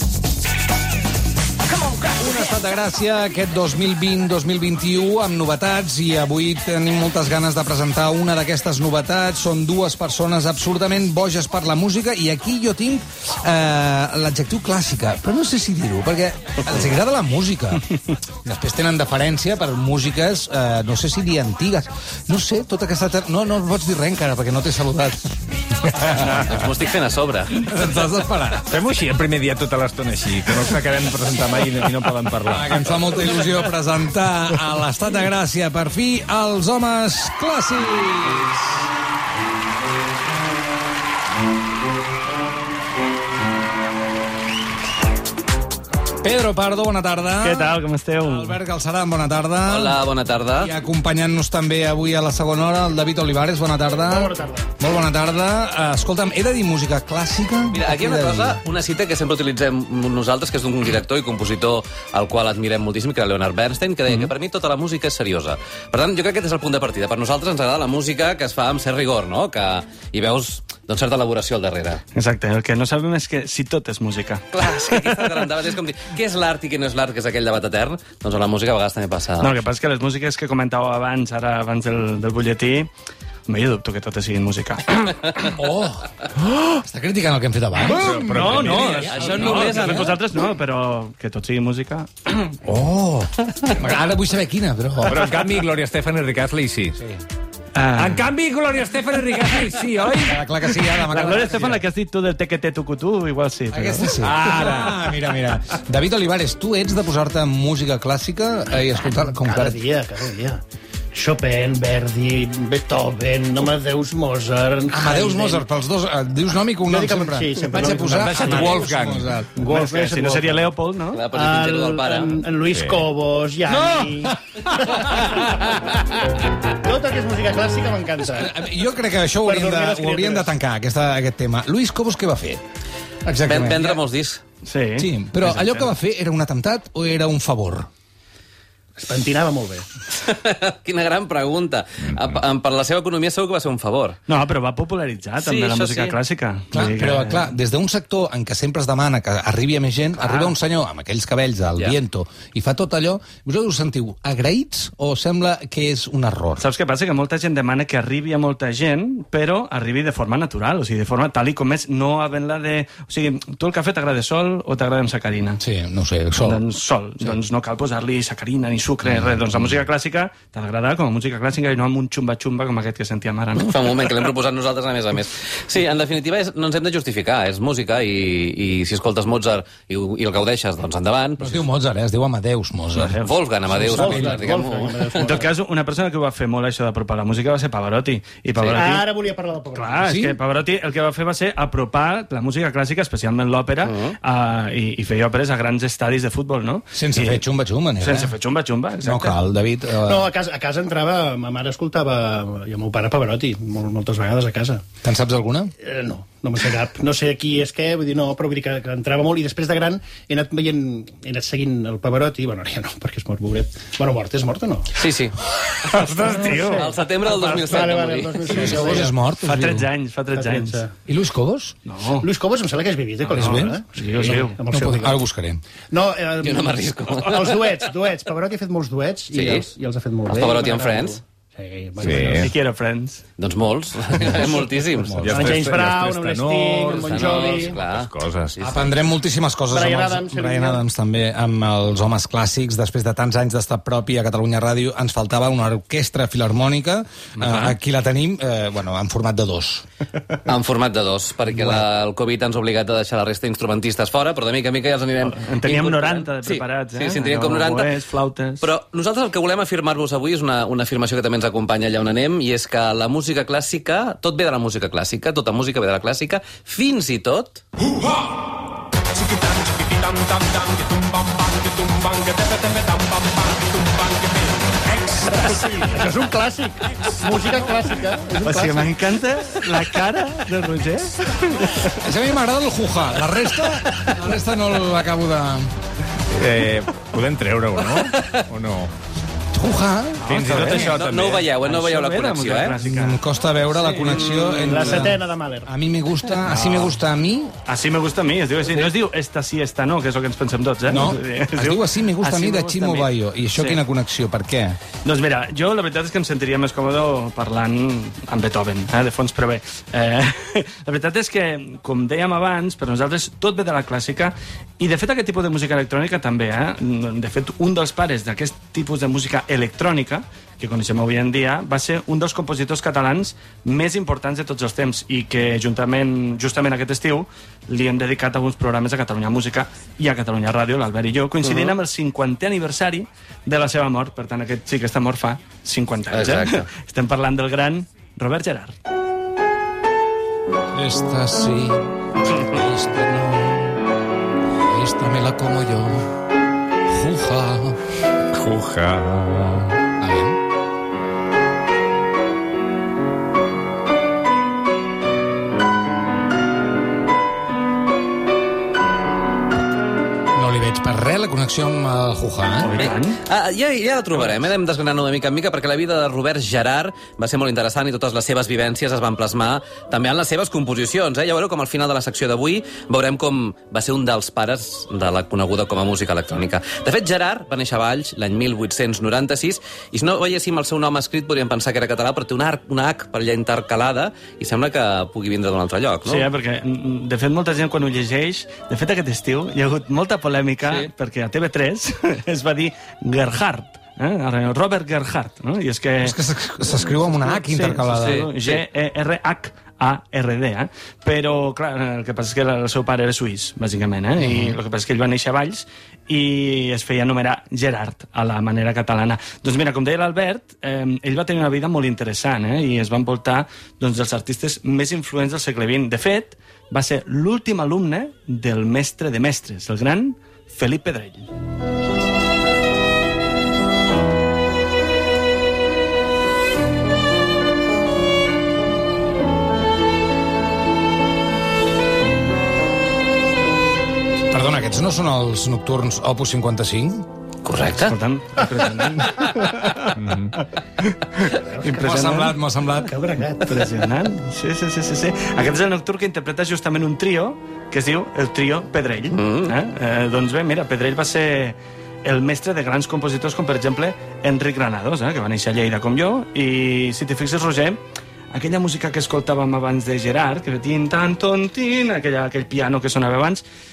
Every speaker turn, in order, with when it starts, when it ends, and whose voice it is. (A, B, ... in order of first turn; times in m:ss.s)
0:01.8-0:17.9 A
0:18.4-0:26.5 A
0:26.2-0:27.6 B
0:27.6-0:28.7 A
0:28.7-0:32.8 C
0:32.4-0:38.9 A
0:46.2-0:58.6 A
0:47.4-0:48.6 D
0:49.7-0:50.7 B
0:54.1-0:54.7 E
0:57.7-1:12.0 B
1:12.1-1:15.2 D
1:14.5-1:19.5 B
1:19.4-1:22.9 D
1:23.5-1:25.3 D
1:25.4-1:30.1 A
1:27.8-1:30.0 C
1:28.3-1:32.6 D
1:28.8-1:30.2 B
1:32.6-1:35.5 A
1:35.0-1:37.0 C
1:37.7-1:38.3 D
1:38.0-1:40.4 C
1:40.2-1:41.8 A
1:40.6-1:45.2 D
1:43.7-1:49.8 A
1:49.2-1:50.6 E
1:51.1-1:55.6 E
1:54.9-1:59.6 A
1:56.9-1:58.9 E
1:58.2-1:59.3 C
1:59.5-2:00.7 E
1:59.6-2:01.2 D
2:01.1-2:02.4 B
2:01.3-2:05.8 E
2:02.7-2:03.0 C
2:03.7-2:05.3 A
2:06.8-2:08.6 E
2:08.2-2:12.6 A
2:09.4-2:10.5 E
2:13.2-2:14.0 A
2:13.5-2:14.4 B
2:14.6-2:15.9 D
2:15.0-2:17.9 A
2:19.0-2:19.9 E
2:20.2-2:24.2 B
2:24.3-2:27.5 D
2:25.4-2:26.2 B
2:26.7-2:36.6 A
2:36.6-2:45.6 D
2:45.6-2:46.6 A
2:46.4-2:53.9 D
2:53.6-3:01.6 B
3:01.4-3:03.2 A
3:03.0-3:03.3 D
3:03.2-3:05.2 B
3:03.7-3:04.6 A
3:03.7-3:05.5 E
3:05.2-3:09.1 D
3:08.6-3:08.8 B
3:08.7-3:10.1 E
3:09.8-3:17.5 D
3:10.0-3:10.4 A
3:13.8-3:14.2 B
3:16.9-3:18.3 A
3:18.0-3:19.4 D
3:19.0-3:20.3 A
3:20.0-3:24.9 E
3:25.0-3:25.7 A
3:25.8-3:34.9 E
3:34.9-3:35.4 B
3:35.8-3:39.1 E
3:35.9-3:36.9 D
3:36.1-3:36.7 A
3:36.5-3:39.0 B
3:38.5-3:39.9 A
3:38.6-3:40.8 D
3:40.3-3:40.9 E
3:41.1-3:41.8 A
3:41.8-3:42.3 D
3:42.2-3:45.2 E
3:43.3-3:44.6 D
3:43.3-3:45.6 A
3:45.9-3:52.5 E
3:46.4-3:47.9 B
3:49.3-3:49.7 B
3:50.3-3:51.2 B
3:52.0-3:52.5 C
3:52.1-3:53.2 D
3:53.4-3:55.3 B
3:55.0-3:55.6 A
3:55.2-3:57.8 E
3:55.2-3:58.6 C
3:56.9-3:58.9 B
3:58.6-4:09.8 A
3:59.7-4:00.8 E
4:10.5-4:17.9 B
4:11.5-4:11.8 A
4:15.2-4:18.7 D
4:18.6-4:27.6 B
4:29.5-4:30.2 E
4:35.1-4:38.9 E
4:38.4-4:42.0 D
4:41.8-4:45.7 A
4:46.3-4:48.9 C
4:48.0-4:48.4 B
4:49.5-4:51.0 A
4:50.2-4:54.3 D
4:50.4-4:51.4 C
4:50.8-4:52.8 B
4:52.8-4:57.5 A
4:54.2-4:54.8 B
4:54.5-4:55.7 E
4:56.4-4:57.0 D
4:57.6-5:03.8 D
5:00.9-5:04.8 A
5:05.0-5:38.8 D
5:36.1-5:36.7 B
5:40.7-5:43.8 A
5:44.6-5:46.1 A
5:46.9-5:47.8 A
5:48.3-5:49.7 C
5:50.0-5:50.4 A
6:00.3-6:02.7 A
6:02.6-6:03.2 D
6:02.8-6:26.3 B
6:26.1-6:36.2 D
6:36.0-6:38.3 A
6:36.9-7:01.3 D
6:38.0-6:38.6 B
6:44.2-6:44.6 A
7:14.3-7:17.1 A
7:17.4-7:18.0 B
7:17.8-7:20.0 D
7:19.9-7:20.3 C
7:20.8-7:22.4 D
7:21.3-7:21.9 E
7:21.8-7:23.0 A
7:22.8-7:23.8 E
7:23.4-7:43.4 D
7:29.1-7:29.5 B